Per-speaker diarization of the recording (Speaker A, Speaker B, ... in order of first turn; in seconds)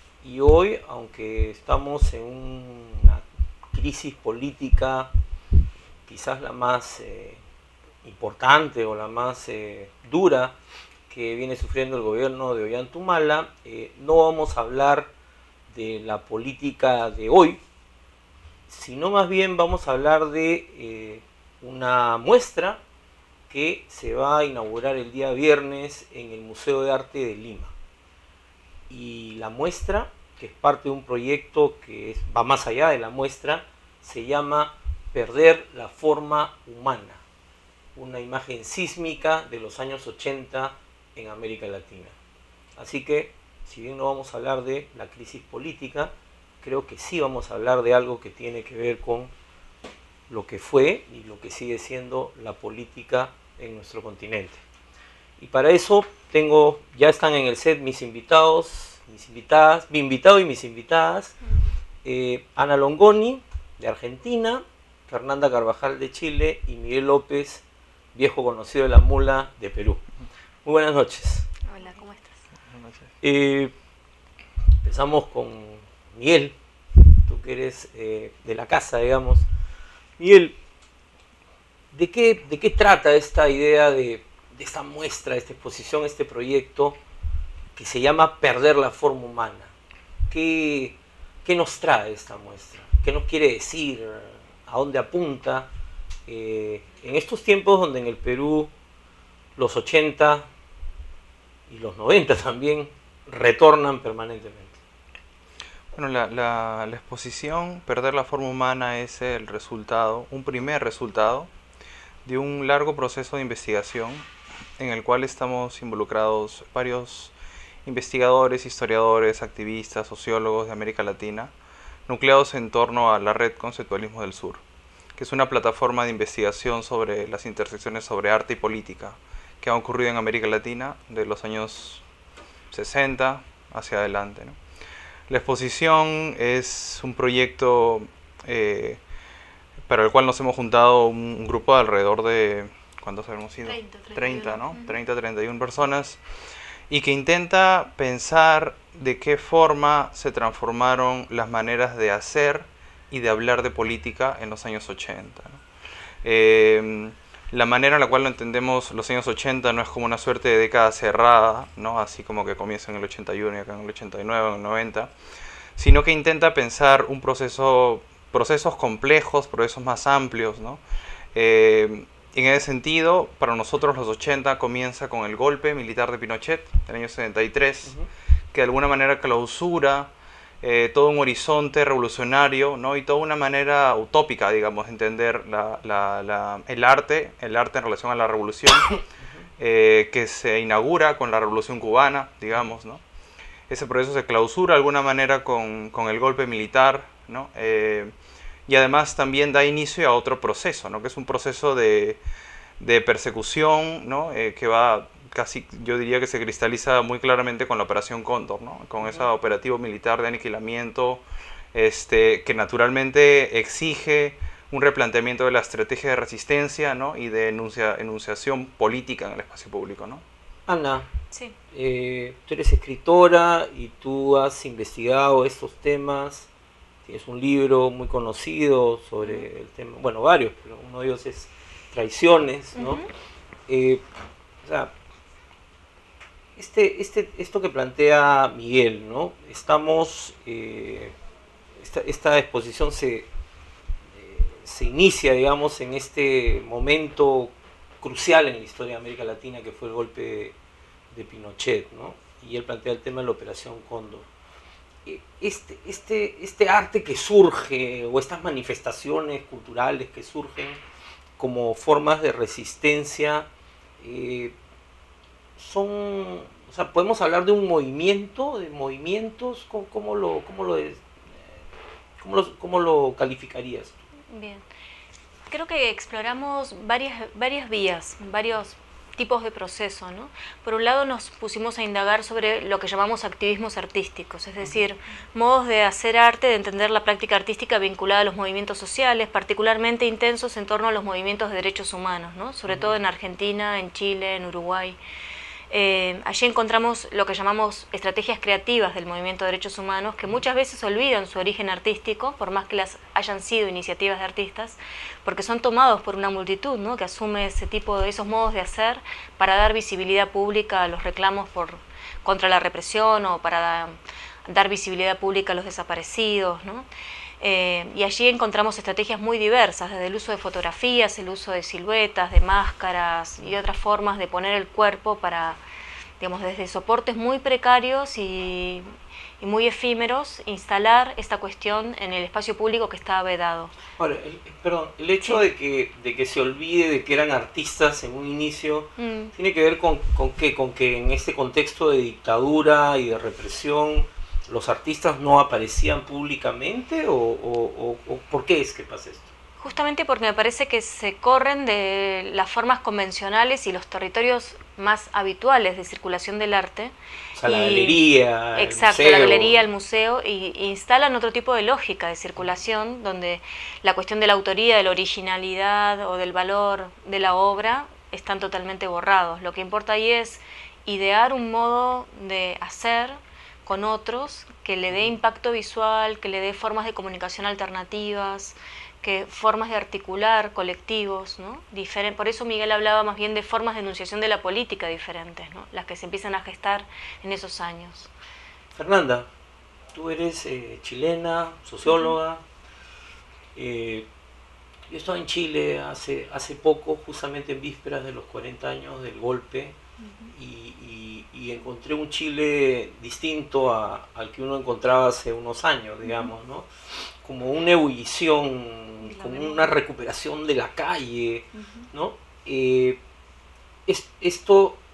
Speaker A: 0.2-5.1, 6.1-7.4, 8.0-10.6, 11.1-15.1, 15.7-17.6, 18.7-22.8, 23.5-27.7, 28.9-37.2, 38.0-42.1, 42.8-49.3, 50.3-54.6, 55.4-61.4, 62.0-70.0, 70.6-71.5, 73.2-73.7, 74.8-76.5, 77.3-79.5, 80.2-80.6, 81.9-87.0, 87.8-89.7, 90.3-95.7, 96.3-98.7, 99.5-100.5, 101.7-104.8, 189.2-189.4, 209.0-209.3, 220.7-221.1, 221.7-226.5, 227.0-233.0, 233.7-234.0, 234.6-234.9, 236.6-241.1, 241.8-243.3, 244.1-250.6, 251.1-254.3, 255.1-260.8, 261.4-263.5, 264.0-264.6, 265.6-271.6, 272.2-274.1, 292.7-292.9, 334.0-349.3, 357.3-359.6, 388.7-389.3, 389.9-392.4, 393.6-394.1, 394.9-399.8, 400.3-406.7, 407.2-413.0, 413.9-414.8
Speaker B: 71.7-72.4, 143.6-144.9, 229.2-229.5, 232.8-233.1, 274.3-274.6, 275.5-295.0, 295.7-313.9, 314.4-316.9, 317.4-325.6, 326.2-328.9, 329.4-333.7, 339.0-339.3, 349.6-356.9, 357.4-388.1
Speaker C: 106.0-111.5, 112.2-114.2, 114.8-117.3, 117.8-121.5, 122.1-124.6, 125.1-132.0, 132.7-134.6, 135.3-139.0, 139.9-146.2, 146.9-155.6, 156.2-165.1, 165.7-170.8, 171.3-177.9, 178.5-188.9, 189.6-193.0, 193.7-198.1, 198.7-202.2, 202.8-220.2, 400.0-400.3, 409.0-409.7, 411.6-411.9